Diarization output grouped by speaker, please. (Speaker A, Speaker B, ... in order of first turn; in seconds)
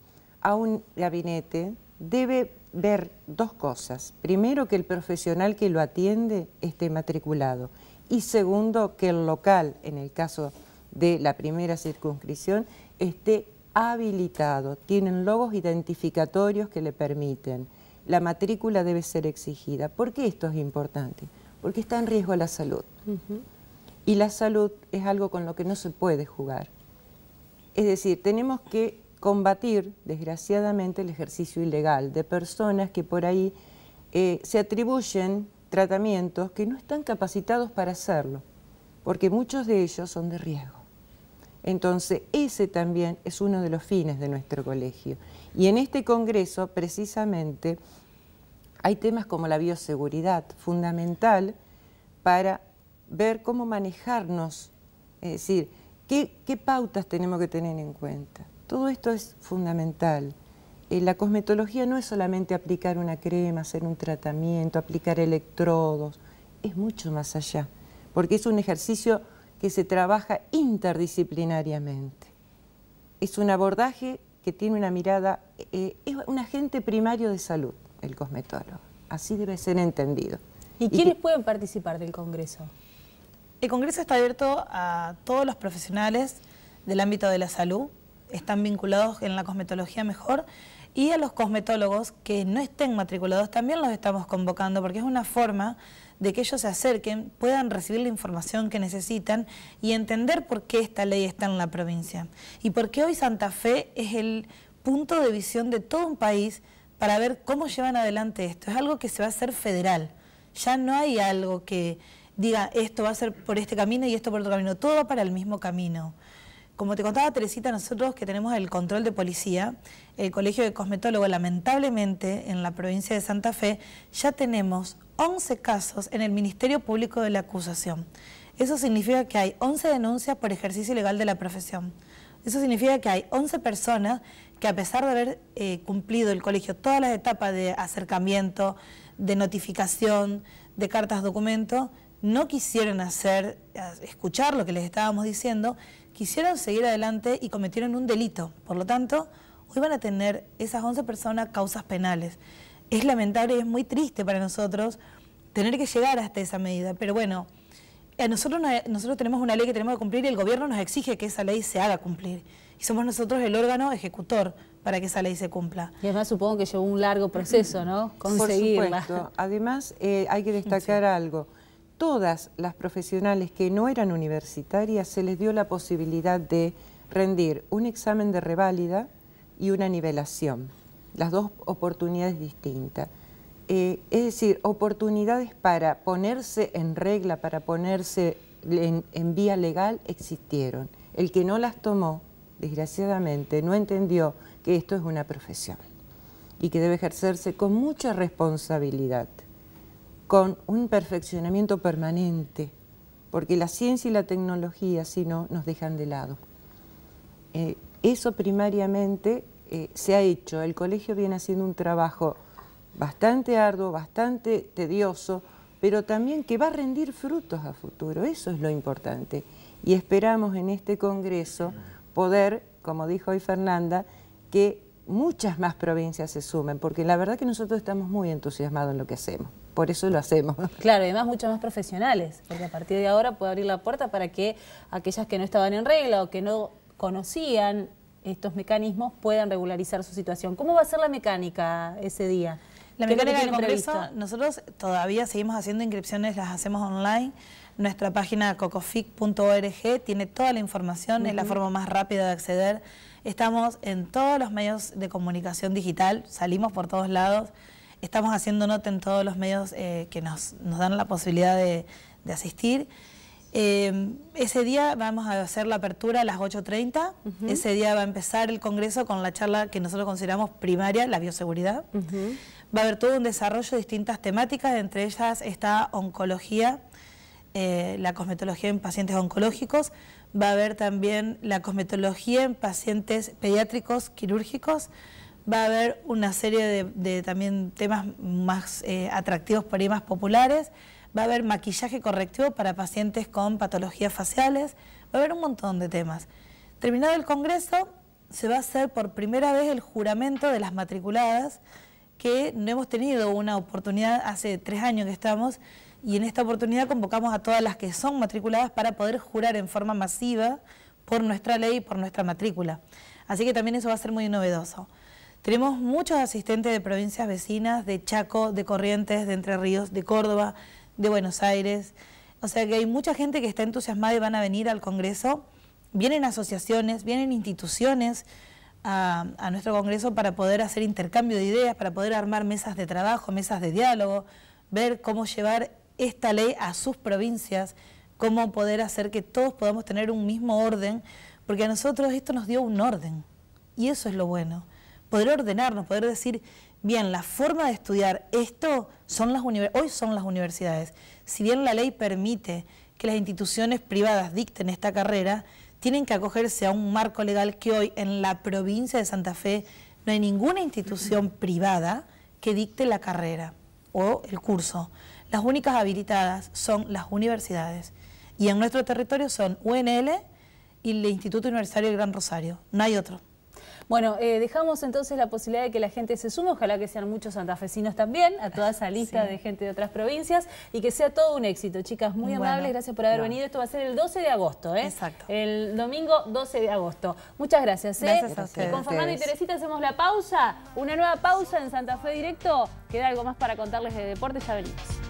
Speaker A: 0.4-22.9, 24.1-26.7, 27.7-33.5, 34.1-38.4, 39.0-40.8, 41.6-47.8, 48.8-51.5, 52.2-60.3, 60.9-72.3, 73.2-80.4, 168.3-183.1, 183.7-195.8, 196.6-199.4, 200.3-202.7, 203.3-206.4, 207.5-212.4, 212.9-230.8, 388.2-389.3
Speaker B: 80.8-82.7, 166.0-169.2, 230.8-244.1, 251.2-251.6, 267.3-267.6, 271.9-272.4, 373.9-394.9
Speaker C: 83.6-90.4, 90.9-116.1, 116.8-128.0, 128.6-131.9, 132.4-152.4, 152.9-155.0, 155.5-157.5, 158.2-165.9, 170.7-170.9, 243.0-257.5, 258.0-262.9, 263.5-271.9, 272.7-276.8, 277.5-284.9, 285.5-296.3, 296.8-301.6, 302.2-314.9, 315.4-328.2, 328.8-343.2, 343.8-370.2, 370.8-373.2, 379.0-379.3, 382.2-382.7, 384.8-385.3, 388.0-389.1